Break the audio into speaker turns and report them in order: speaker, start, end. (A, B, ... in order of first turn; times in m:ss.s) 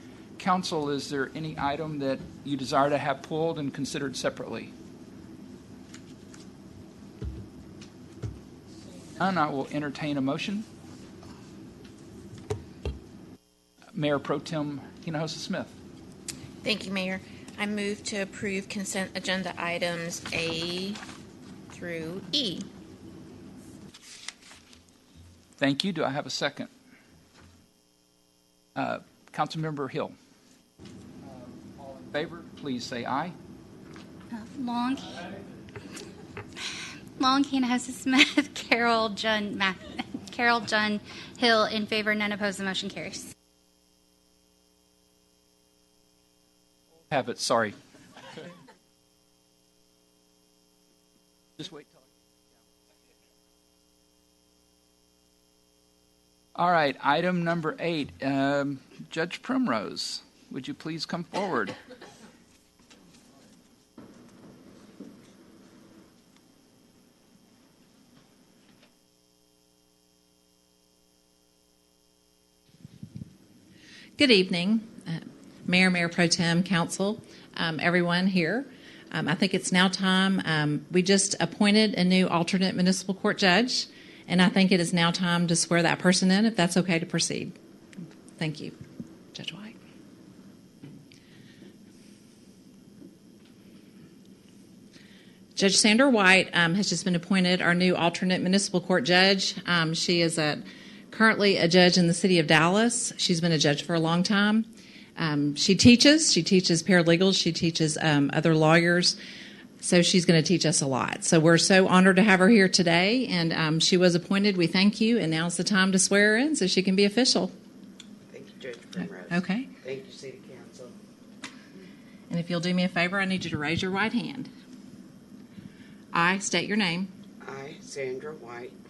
0:00.4-0:04.7 A
0:09.2-0:10.7 A
0:13.9-0:15.8 A
0:16.6-0:21.0 B
0:21.7-0:22.7 B
0:25.6-0:26.7 A
0:28.8-0:30.2 A
0:31.2-0:33.4 A
0:34.3-0:35.4 C
0:37.2-0:43.3 C
0:47.1-0:47.8 A
0:56.6-1:01.8 A
1:14.2-1:27.6 D
1:28.4-1:28.8 D
1:29.3-1:29.8 D
1:35.6-1:49.2 D
1:49.8-1:57.5 D
1:58.3-2:01.0 E
1:59.3-1:59.7 D
2:02.3-2:04.5 D
2:06.1-2:07.1 D
2:07.4-2:08.8 E